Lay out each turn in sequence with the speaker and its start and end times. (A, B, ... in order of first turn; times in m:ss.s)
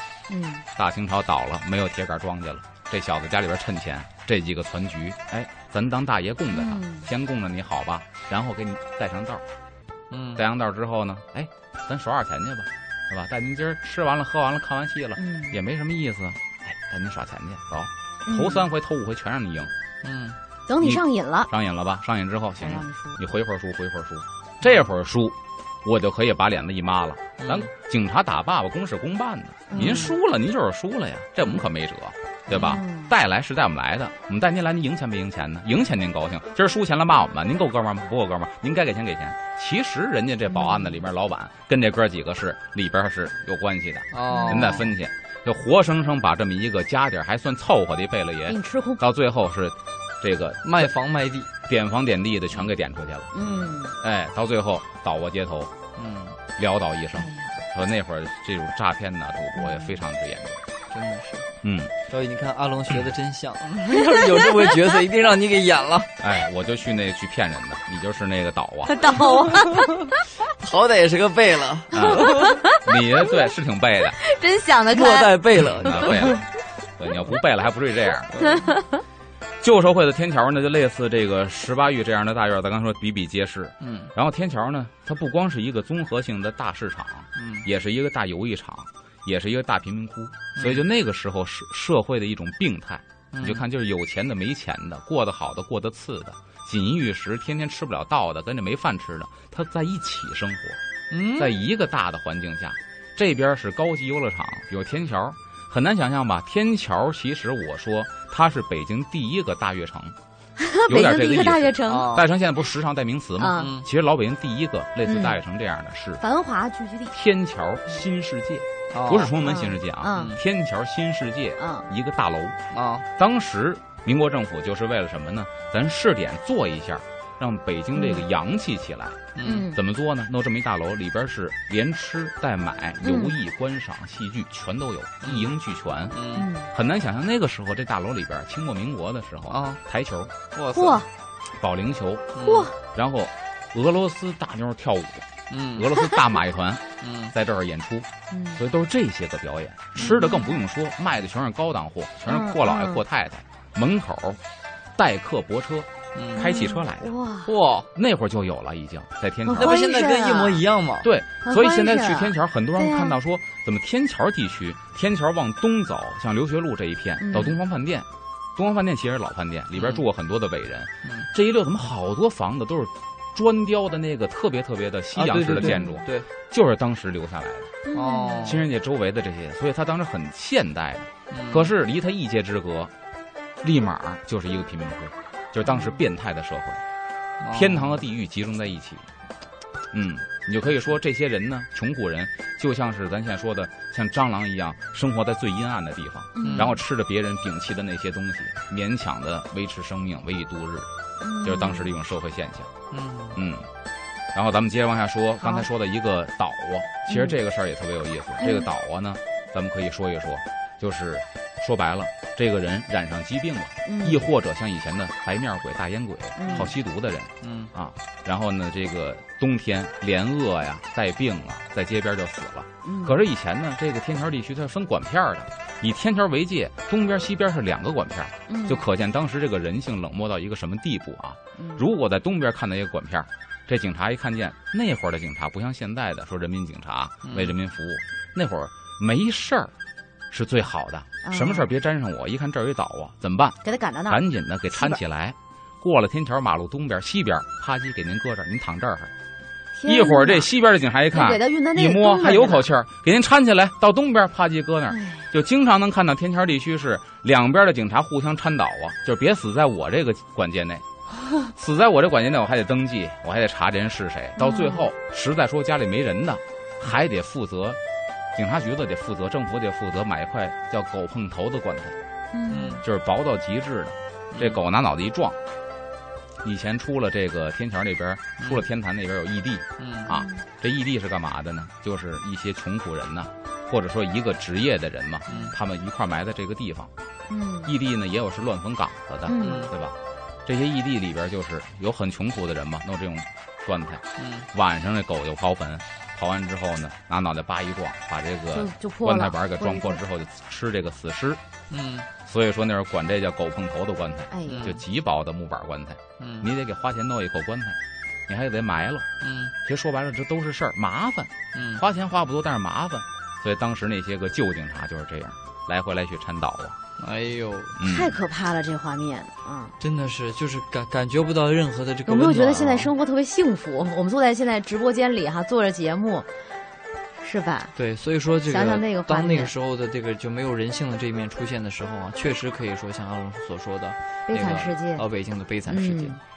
0:00.3-0:00.6 A
0:00.8-0:09.4 B
0:06.5-0:07.1 A
0:10.1-0:10.4 C
0:10.4-0:19.7 B
0:15.2-0:15.6 A
0:18.2-0:18.7 A
0:20.0-0:20.4 C
0:20.7-0:21.5 A
0:20.8-0:50.9 B
0:22.6-0:23.2 A
0:27.4-0:27.7 C
0:29.7-0:30.1 A
0:29.8-0:30.1 C
0:32.5-0:32.8 C
0:32.5-0:33.1 A
0:40.5-0:41.0 A
0:44.1-0:44.9 C
0:44.3-0:44.8 A
0:48.5-0:49.0 A
0:50.6-0:51.5 C
0:51.6-0:53.4 B
0:53.3-0:54.0 A
0:53.4-0:53.8 C
0:54.0-0:55.7 B
0:56.0-0:56.4 C
0:56.5-1:00.6 B
0:57.2-0:57.6 A
0:59.6-0:59.9 A
1:00.9-1:01.5 C
1:01.6-1:01.9 B
1:02.1-1:06.2 C
1:03.9-1:04.9 A
1:06.2-1:09.0 B
1:08.9-1:10.2 A
1:09.6-1:12.5 C
1:11.9-1:12.9 A
1:11.9-1:14.2 B
1:14.2-1:16.4 A
1:14.9-1:16.4 C
1:15.6-1:16.4 B
1:17.0-1:18.3 B
1:18.3-1:18.7 C
1:18.4-1:19.0 A
1:19.6-1:40.8 B
1:23.8-1:24.1 C
1:27.4-1:27.7 C
1:30.6-1:30.8 C
1:33.3-1:33.6 C
1:41.1-1:41.6 C
1:41.4-1:50.2 B
1:50.6-1:52.2 A
1:50.9-1:56.2 B
1:51.8-1:52.3 C
1:53.4-1:53.7 A
1:53.6-1:53.9 C
1:55.0-1:55.4 A
1:56.2-1:57.2 A
1:57.1-2:02.6 B
1:58.9-1:59.4 C
1:59.3-2:00.4 A
2:00.1-2:00.4 C
2:01.6-2:01.9 A
2:02.7-2:03.0 C
2:03.2-2:16.2 B
2:07.9-2:08.2 A
2:09.4-2:09.7 C
2:09.4-2:09.8 A
2:13.0-2:13.3 A
2:15.2-2:15.5 C
2:16.1-2:16.5 C
2:16.3-2:16.7 A
2:16.7-2:20.3 B
2:19.5-2:19.8 C
2:20.5-2:21.0 C
2:20.7-2:21.1 A
2:21.6-2:34.4 B
2:22.4-2:22.7 C
2:22.4-2:22.7 A
2:25.5-2:25.9 C
2:27.0-2:27.3 C
2:28.3-2:28.6 A
2:30.0-2:30.3 C
2:30.0-2:30.6 A
2:32.2-2:33.0 A
2:35.0-2:37.1 B
2:36.1-2:36.6 C
2:36.4-2:37.5 A
2:37.4-2:37.9 C
2:37.9-2:39.7 B
2:39.4-2:40.6 A
2:39.6-2:41.1 C
2:41.0-2:57.8 B
2:41.4-2:43.2 A
2:47.2-2:47.5 A
2:49.7-2:50.0 C
2:51.0-2:51.3 C
2:55.1-2:56.3 C
2:55.6-2:56.0 A
2:57.9-2:58.5 A
2:57.9-2:58.6 C
2:58.4-3:02.9 B
3:01.3-3:01.7 C
3:03.6-3:06.8 B
3:07.4-3:08.0 C
3:07.5-3:09.1 B
3:09.9-3:20.9 B
3:16.3-3:16.8 A
3:16.4-3:16.8 C
3:21.2-3:21.9 A
3:21.4-3:22.7 B
3:22.9-3:23.4 C
3:23.3-3:23.7 B
3:24.3-3:59.7 B
3:25.4-3:25.7 A
3:27.1-3:27.4 A
3:28.4-3:28.7 A
3:33.8-3:34.3 A
3:36.4-3:36.7 A
3:36.5-3:36.7 C
3:37.4-3:37.7 C
3:42.8-3:43.2 A
3:48.5-3:48.8 A
3:51.6-3:51.8 A
3:57.2-3:57.5 C
4:00.3-4:09.1 B
4:01.2-4:01.7 A
4:03.6-4:05.0 A
4:09.7-4:10.5 A
4:09.9-4:20.8 B
4:11.1-4:12.7 A
4:14.9-4:15.3 A
4:21.5-4:27.8 B
4:24.4-4:24.9 A
4:28.3-4:32.0 B
4:32.3-4:32.8 A
4:32.5-4:32.8 C
4:32.8-4:35.4 B
4:34.3-4:34.6 C
4:36.4-4:46.9 B
4:38.4-4:38.6 C
4:39.8-4:40.1 C
4:40.1-4:40.4 A
4:45.3-4:45.6 C
4:45.3-4:45.5 A
4:47.3-4:47.7 A
4:47.6-5:01.4 B
4:49.2-4:49.7 A
4:49.4-4:49.7 C
4:54.2-4:54.5 C
4:58.5-5:00.0 A
5:01.7-5:02.1 C
5:02.2-5:09.1 B
5:04.3-5:04.8 A
5:04.5-5:04.8 C
5:06.2-5:06.5 C
5:09.2-5:09.5 C
5:09.6-5:16.8 B
5:11.5-5:11.8 C
5:17.0-5:17.8 C
5:17.8-5:18.2 B
5:17.8-5:19.7 A
5:19.8-5:22.9 C
5:22.1-5:26.3 A
5:27.2-5:27.7 A
5:27.8-5:36.2 C
5:28.5-5:29.5 A
5:34.3-5:35.0 A
5:35.7-5:36.2 A